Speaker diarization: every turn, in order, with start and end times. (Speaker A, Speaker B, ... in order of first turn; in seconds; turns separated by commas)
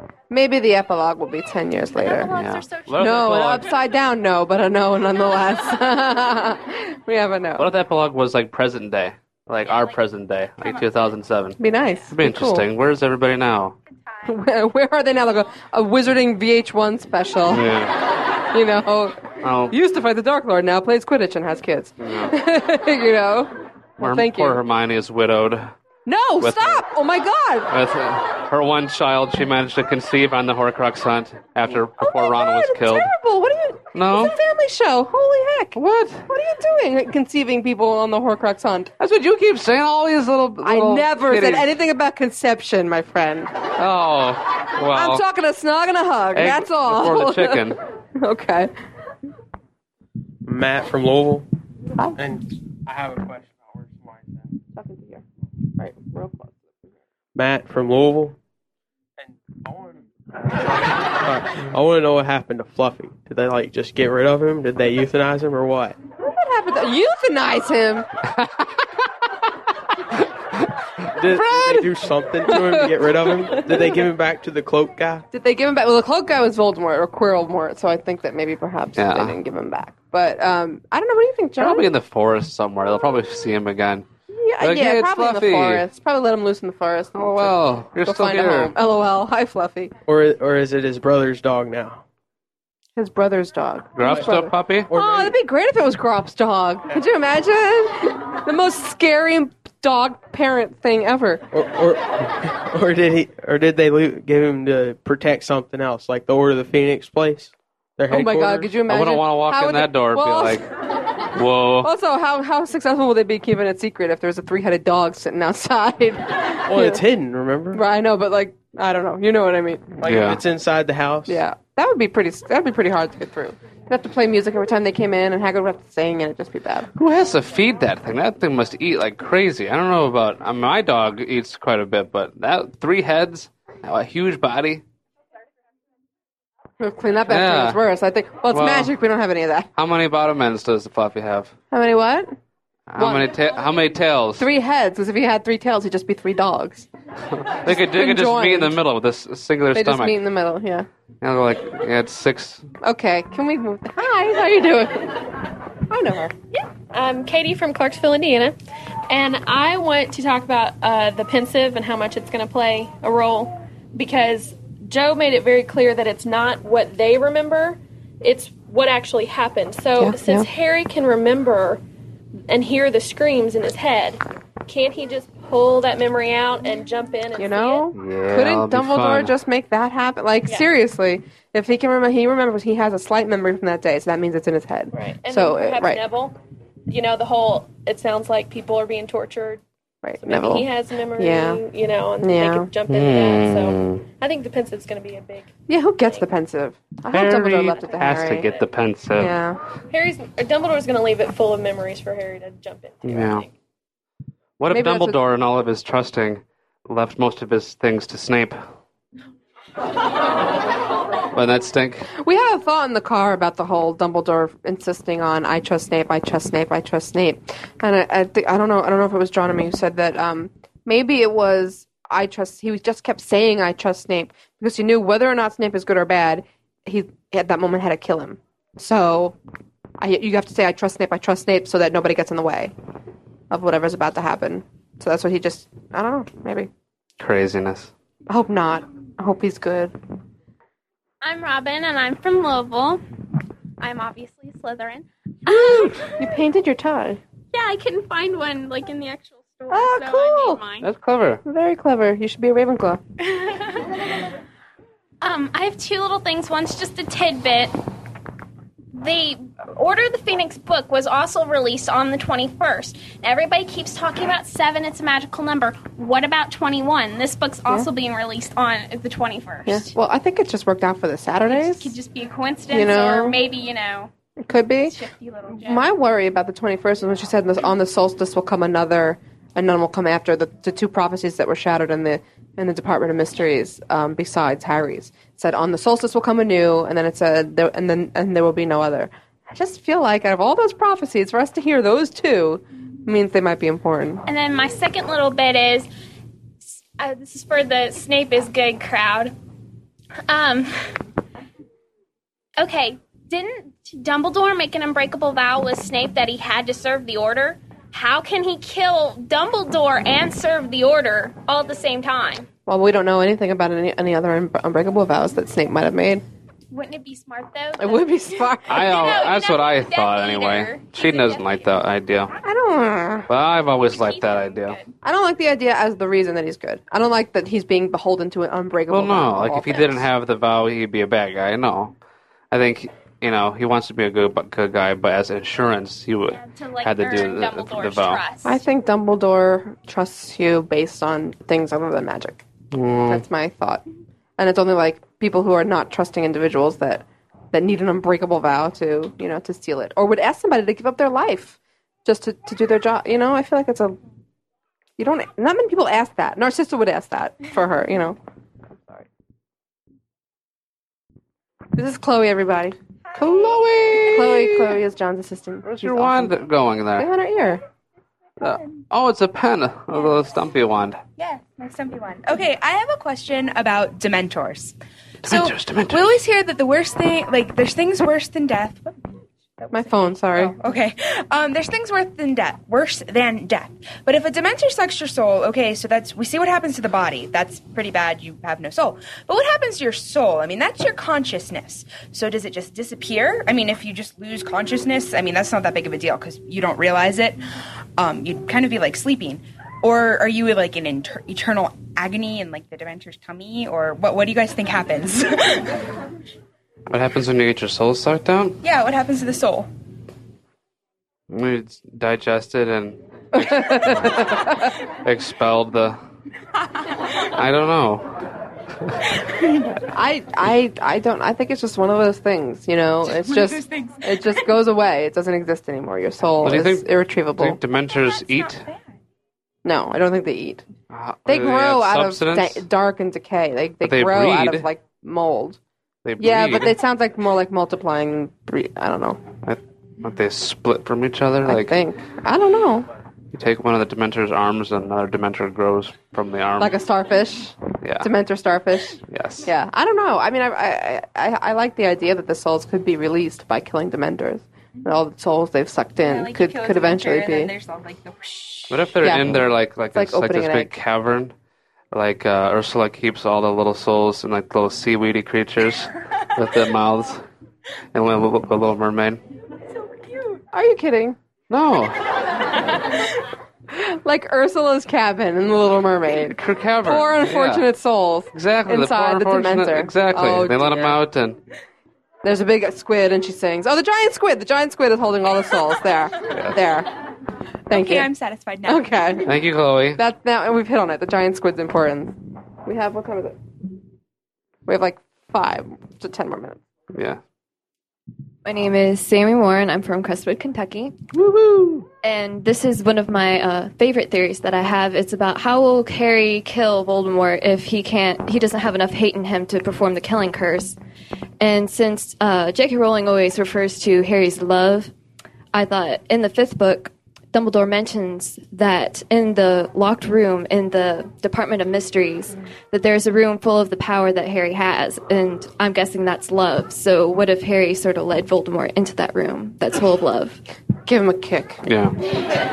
Speaker A: 0.3-2.3, Speaker B: 2.0-3.1, Speaker C: 2.4-3.7, Speaker A: 3.0-7.7, Speaker C: 7.6-11.6, Speaker B: 9.7-10.0, Speaker B: 10.6-10.9, Speaker A: 11.6-12.7, Speaker C: 12.1-13.8, Speaker B: 14.0-14.3, Speaker A: 14.2-17.7, Speaker C: 17.5-18.0, Speaker A: 18.5-24.6, Speaker C: 19.4-19.8, Speaker C: 22.0-22.4, Speaker C: 24.0-25.7, Speaker A: 26.1-27.7, Speaker C: 26.4-26.8, Speaker C: 27.7-33.1, Speaker A: 32.0-38.9, Speaker C: 33.9-34.4, Speaker C: 35.8-36.3, Speaker C: 39.0-41.7, Speaker A: 40.6-43.6, Speaker C: 43.8-45.2, Speaker A: 44.9-48.7, Speaker C: 46.4-47.8, Speaker D: 50.5-51.5, Speaker D: 52.2-54.5, Speaker A: 54.7-55.2, Speaker A: 55.8-56.6, Speaker D: 57.4-58.4, Speaker D: 59.2-66.0, Speaker A: 66.2-68.1, Speaker D: 71.2-75.3, Speaker A: 71.3-71.9, Speaker A: 72.5-74.0, Speaker A: 75.3-81.9, Speaker C: 79.0-79.4, Speaker C: 81.6-84.1, Speaker A: 84.3-89.9, Speaker C: 84.6-85.8, Speaker C: 87.2-88.7, Speaker D: 90.1-92.0, Speaker A: 93.0-101.5, Speaker C: 94.0-94.9, Speaker D: 94.9-95.4, Speaker D: 101.5-108.7, Speaker A: 108.1-110.7, Speaker C: 108.9-110.6, Speaker C: 111.3-111.9, Speaker A: 111.8-117.0, Speaker D: 116.7-117.8, Speaker A: 117.7-120.0, Speaker D: 120.0-121.4, Speaker C: 120.0-120.4, Speaker A: 121.3-126.9, Speaker C: 127.0-134.8, Speaker A: 136.8-139.7, Speaker C: 137.3-137.8, Speaker C: 138.5-138.9, Speaker C: 139.8-141.6, Speaker A: 141.7-142.3, Speaker C: 142.9-144.5, Speaker A: 143.0-143.4, Speaker A: 144.4-146.9, Speaker C: 147.3-150.2, Speaker A: 147.7-148.8, Speaker A: 149.7-150.9, Speaker C: 151.2-152.7, Speaker A: 152.8-156.3, Speaker E: 156.9-158.6, Speaker E: 159.1-171.8, Speaker A: 170.0-170.5, Speaker E: 172.5-177.9, Speaker A: 177.4-186.0, Speaker C: 177.9-179.3, Speaker E: 184.9-186.3, Speaker E: 186.9-189.6, Speaker A: 190.0-191.6, Speaker E: 190.2-195.5, Speaker A: 192.2-192.7, Speaker C: 192.9-194.1, Speaker A: 195.7-198.5, Speaker C: 197.1-199.4, Speaker A: 199.1-199.6, Speaker E: 199.9-203.5, Speaker C: 203.0-203.5, Speaker C: 204.6-208.6, Speaker A: 204.7-205.2, Speaker C: 211.3-212.1, Speaker A: 212.2-229.4, Speaker A: 230.0-232.7, Speaker A: 233.5-236.7, Speaker C: 237.2-237.9, Speaker A: 238.3-239.9, Speaker B: 241.2-243.0, Speaker B: 243.8-246.1, Speaker A: 245.5-247.2, Speaker B: 247.5-250.9, Speaker A: 249.7-250.6, Speaker C: 250.8-251.4, Speaker A: 251.4-253.0, Speaker B: 253.2-254.1, Speaker B: 255.2-257.8, Speaker B: 258.9-269.9, Speaker A: 269.7-272.0, Speaker B: 271.4-274.1, Speaker A: 272.7-273.4, Speaker A: 274.4-275.0, Speaker B: 274.8-275.9, Speaker A: 275.5-294.2, Speaker B: 294.3-295.9, Speaker B: 296.6-299.4, Speaker B: 300.3-300.9, Speaker B: 302.6-312.5, Speaker A: 312.7-316.2, Speaker B: 316.7-321.8, Speaker A: 317.8-318.9, Speaker C: 318.7-322.3, Speaker A: 322.4-323.3, Speaker C: 323.3-324.8, Speaker B: 323.8-324.9, Speaker A: 325.0-330.1, Speaker C: 328.9-331.9, Speaker C: 332.5-338.2, Speaker B: 336.3-338.6, Speaker A: 338.4-342.4, Speaker C: 342.7-343.2, Speaker A: 343.1-343.8, Speaker A: 344.4-354.0, Speaker A: 355.0-358.2, Speaker A: 361.8-366.3, Speaker C: 363.2-364.8, Speaker C: 365.6-367.1, Speaker A: 367.0-367.6, Speaker C: 368.4-371.0, Speaker F: 371.2-379.0, Speaker C: 375.2-376.1, Speaker A: 379.7-380.6, Speaker F: 380.3-397.4, Speaker F: 398.0-405.8, Speaker C: 406.9-408.6, Speaker F: 408.6-409.7, Speaker C: 411.3-414.3, Speaker A: 413.3-414.7, Speaker C: 415.0-416.0, Speaker C: 417.2-418.2, Speaker A: 419.9-427.6, Speaker C: 426.4-428.6, Speaker A: 429.6-430.6, Speaker C: 430.9-432.6, Speaker A: 431.3-435.6, Speaker C: 433.8-434.7, Speaker C: 436.1-436.8, Speaker A: 436.2-439.2, Speaker C: 439.4-441.8, Speaker A: 441.4-442.9, Speaker C: 443.3-446.7, Speaker A: 446.6-457.5, Speaker C: 447.8-448.1, Speaker C: 449.1-449.5, Speaker F: 456.1-458.6, Speaker C: 458.7-461.3, Speaker A: 459.0-460.7, Speaker C: 461.9-467.2, Speaker C: 467.9-469.2, Speaker A: 470.5-471.2, Speaker C: 471.5-472.1, Speaker A: 473.7-481.0, Speaker C: 476.3-477.6, Speaker C: 478.3-481.4, Speaker A: 482.2-487.0, Speaker C: 486.3-486.6, Speaker A: 487.7-488.1, Speaker F: 487.7-488.9, Speaker A: 488.6-489.4, Speaker C: 489.2-490.0, Speaker A: 490.0-493.4, Speaker A: 494.7-496.6, Speaker C: 496.9-497.2, Speaker G: 498.4-501.0, Speaker C: 501.2-501.8, Speaker G: 502.0-510.8, Speaker G: 511.4-514.9, Speaker G: 515.5-530.4, Speaker A: 530.8-531.6, Speaker C: 531.6-532.0